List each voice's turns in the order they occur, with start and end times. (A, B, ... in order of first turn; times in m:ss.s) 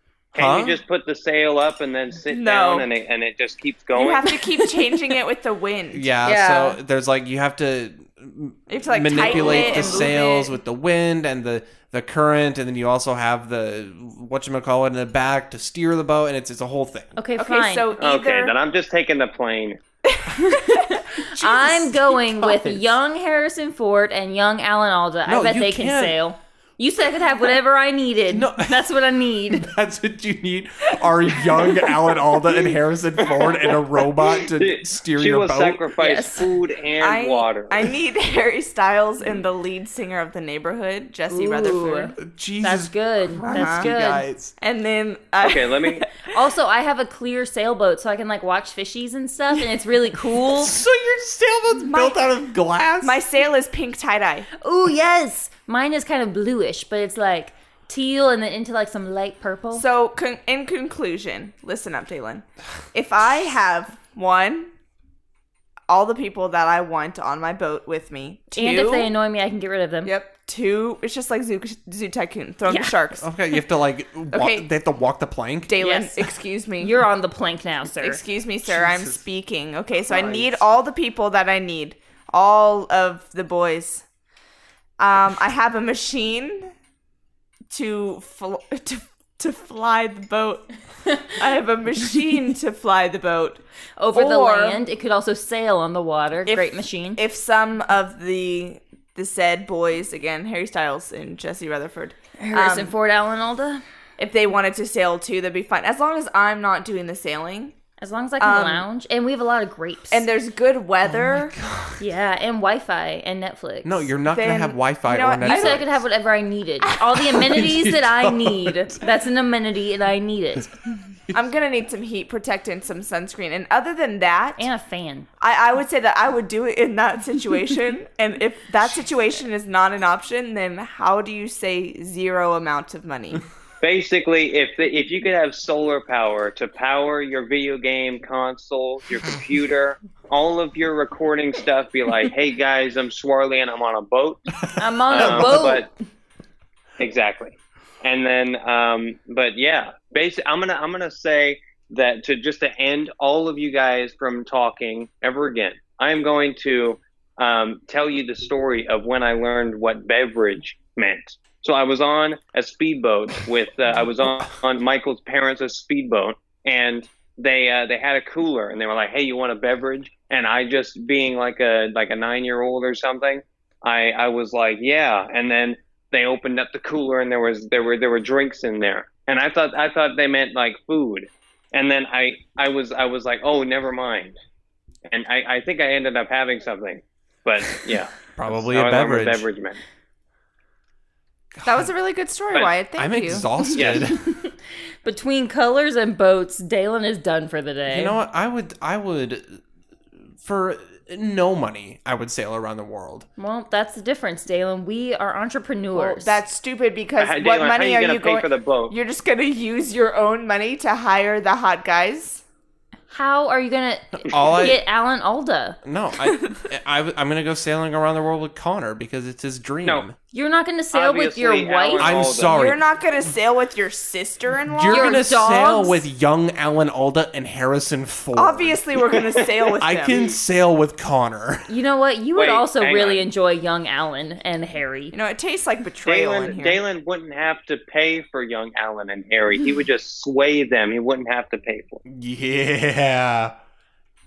0:00.3-0:04.3 A
0:00.4-0:00.8 B
0:02.3-0:02.9 C
0:03.9-0:06.1 C
0:05.9-0:17.2 B
0:06.2-0:06.8 D
0:08.7-0:10.6 C
0:17.2-0:17.9 D
0:17.4-0:18.6 C
0:18.0-0:19.8 A
0:20.1-0:21.0 C
0:20.5-0:29.7 D
0:21.4-0:23.0 B
0:25.2-0:26.2 B
0:28.3-0:28.9 B
0:29.5-0:35.9 B
0:31.5-0:31.9 C
0:33.4-0:33.8 C
0:34.6-0:37.8 A
0:36.0-0:42.2 C
0:41.3-0:44.3 D
0:42.2-0:44.6 B
0:43.4-0:43.9 C
0:44.6-0:46.4 C
0:45.4-0:46.0 A
0:46.3-0:50.8 D
0:50.2-0:53.2 B
0:51.8-0:52.3 C
0:53.0-0:54.5 C
0:54.6-0:59.8 D
0:59.7-1:04.7 C
1:05.9-1:09.1 C
1:08.5-1:10.1 D
1:10.0-1:13.3 C
1:12.7-1:13.0 D
1:13.2-1:15.8 B
1:14.3-1:14.7 C
1:15.7-1:17.0 C
1:15.8-1:16.2 D
1:16.8-1:18.2 D
1:18.0-1:24.0 C
1:18.7-1:19.2 B
1:20.1-1:20.6 B
1:25.0-1:26.7 C
1:27.7-1:33.6 C
1:34.0-1:37.2 D
1:34.1-1:34.8 C
1:36.5-1:42.9 C
1:42.5-1:43.8 D
1:44.2-1:47.8 C
1:48.0-1:50.3 D
1:48.4-1:48.8 C
1:50.1-1:51.6 C
1:51.1-1:52.0 B
1:52.0-1:54.1 D
1:53.8-1:55.9 B
1:54.3-1:55.9 C
1:55.4-2:00.7 D
1:57.1-1:59.1 B
2:01.3-2:04.7 C
2:04.6-2:05.3 D
2:05.4-2:13.4 C
2:13.8-2:24.4 A
2:24.6-2:25.7 B
2:24.8-2:25.9 D
2:25.1-2:25.9 A
2:27.0-3:04.4 A
3:05.1-3:09.8 A
3:08.4-3:09.5 B
3:11.5-3:11.9 B
3:11.6-3:13.8 C
3:13.0-3:14.2 B
3:13.7-3:14.1 A
3:14.3-3:18.2 D
3:17.9-3:19.6 B
3:20.4-3:23.3 B
3:23.4-3:26.4 D
3:26.0-3:32.4 C
3:27.2-3:29.0 A
3:33.1-3:35.8 D
3:34.2-3:34.8 B
3:35.8-3:40.2 B
3:40.3-3:42.3 D
3:40.9-3:42.6 A
3:42.0-3:43.3 B
3:42.5-3:45.2 C
3:44.7-3:48.8 B
3:44.9-3:46.0 D
3:48.4-3:50.2 C
3:49.8-3:51.7 B
3:51.7-3:55.2 D
3:52.4-3:53.2 A
3:55.1-3:56.8 C
3:56.0-4:02.0 A
4:02.1-4:03.6 B